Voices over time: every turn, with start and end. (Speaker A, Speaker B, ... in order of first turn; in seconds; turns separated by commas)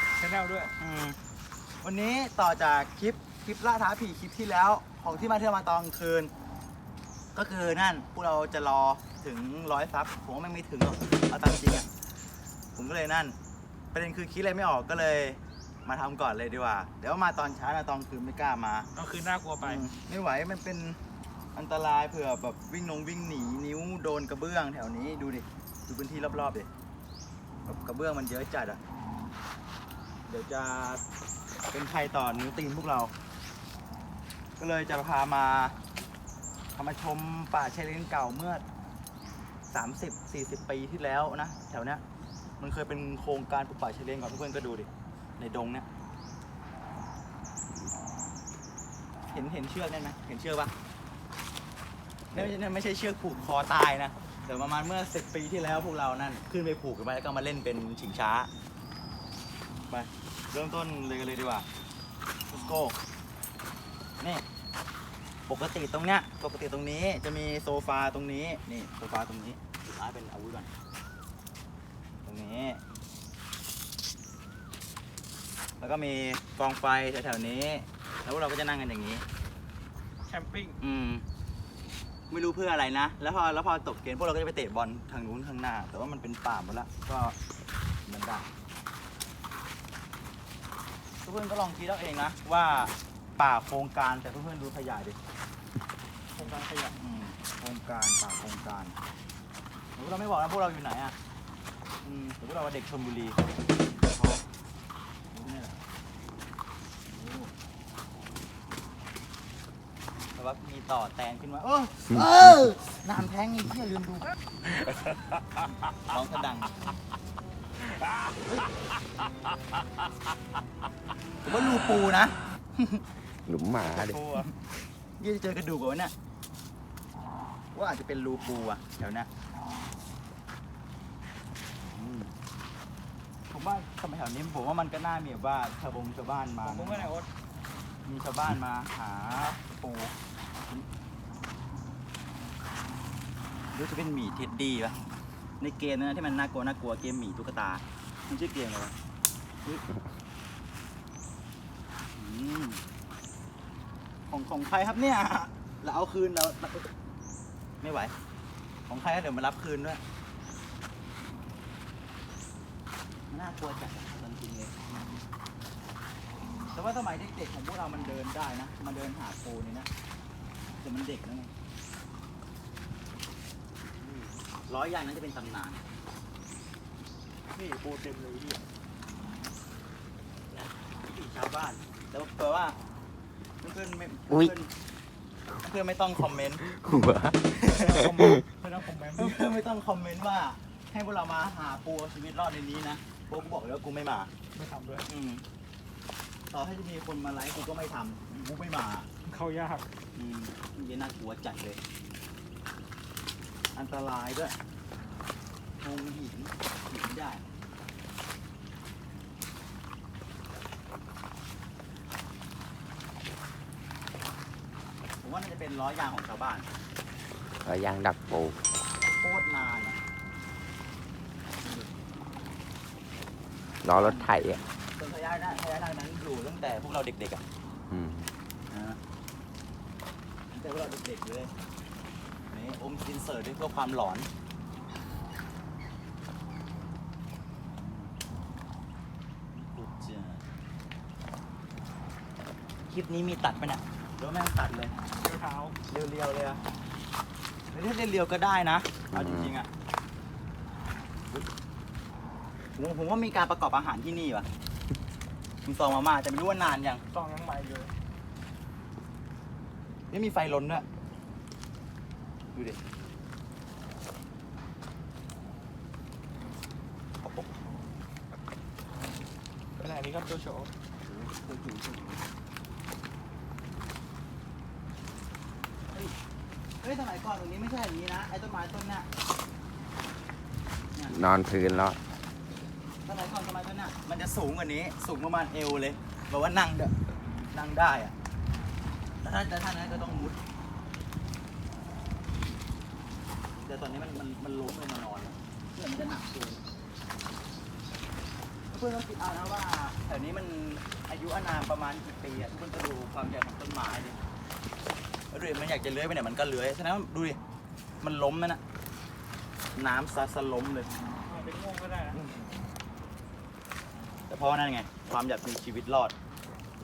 Speaker A: 0.2-0.7, Speaker B: 0.8-1.2, Speaker B: 1.8-6.3, Speaker B: 7.3-11.9, Speaker B: 12.8-13.4, Speaker B: 13.9-18.9, Speaker A: 18.9-19.9, Speaker B: 19.6-21.0, Speaker B: 21.6-26.7, Speaker B: 27.7-28.8, Speaker B: 30.3-31.0, Speaker B: 31.7-33.1, Speaker B: 34.6-35.8, Speaker B: 36.8-38.6, Speaker B: 39.7-42.0, Speaker B: 42.6-45.9, Speaker B: 49.3-50.7, Speaker B: 52.3-58.5, Speaker B: 59.9-61.7, Speaker B: 62.5-63.0, Speaker B: 65.5-70.7, Speaker B: 72.2-72.8, Speaker B: 75.8-79.2, Speaker A: 80.3-80.8, Speaker B: 80.8-81.2, Speaker B: 82.3-87.3, Speaker B: 88.1-88.5, Speaker B: 91.2-95.2, Speaker A: 96.3-97.0, Speaker B: 97.0-99.0, Speaker B: 100.0-101.2, Speaker B: 102.0-103.4, Speaker B: 104.1-104.4, Speaker B: 105.3-105.8, Speaker B: 107.1-107.5, Speaker B: 110.3-114.3, Speaker B: 116.0-116.7, Speaker B: 121.4-123.0, Speaker C: 123.5-124.2, Speaker A: 124.1-124.4, Speaker B: 125.2-126.1, Speaker B: 127.7-129.3, Speaker B: 131.8-132.3, Speaker B: 133.5-137.1, Speaker A: 136.6-137.3, Speaker B: 138.1-140.1, Speaker B: 143.7-144.9, Speaker B: 145.6-148.9, Speaker B: 152.2-152.8, Speaker B: 154.3-156.9, Speaker B: 157.8-158.1, Speaker B: 158.9-160.0, Speaker B: 163.3-164.7, Speaker B: 166.7-169.9, Speaker B: 170.8-171.5, Speaker B: 174.0-175.8, Speaker A: 177.5-178.6, Speaker B: 180.5-182.8, Speaker B: 183.6-184.7, Speaker B: 185.6-186.6, Speaker C: 186.6-188.4, Speaker B: 187.7-187.9, Speaker A: 187.8-189.4, Speaker B: 189.2-194.3, Speaker A: 194.5-195.1, Speaker B: 195.1-195.4, Speaker B: 196.5-199.1, Speaker A: 199.3-199.9, Speaker B: 200.2-201.8, Speaker B: 203.7-204.6, Speaker B: 205.8-207.4, Speaker B: 215.2-216.7, Speaker C: 217.6-218.6, Speaker B: 219.1-220.0, Speaker C: 223.8-224.6, Speaker B: 223.9-224.3, Speaker B: 224.9-227.4, Speaker C: 227.9-228.3, Speaker B: 228.7-229.0, Speaker B: 230.5-231.5, Speaker B: 232.5-234.3, Speaker B: 237.7-238.1, Speaker B: 239.5-240.4, Speaker B: 242.9-244.9, Speaker A: 245.2-245.8, Speaker B: 245.9-246.6, Speaker B: 247.7-249.7, Speaker C: 249.1-249.5, Speaker B: 252.8-254.5, Speaker B: 255.7-257.0, Speaker A: 257.1-257.9, Speaker B: 260.1-260.9, Speaker B: 262.5-262.8, Speaker A: 269.8-270.7, Speaker C: 271.1-272.2, Speaker B: 276.8-279.1, Speaker C: 281.1-282.0, Speaker B: 283.1-286.9, Speaker B: 287.5-288.1, Speaker B: 289.2-290.4, Speaker B: 293.6-296.6, Speaker B: 298.7-304.2, Speaker B: 305.3-307.4, Speaker B: 308.0-308.6, Speaker B: 309.8-310.9, Speaker A: 311.3-312.2, Speaker B: 312.1-312.5, Speaker B: 314.3-316.1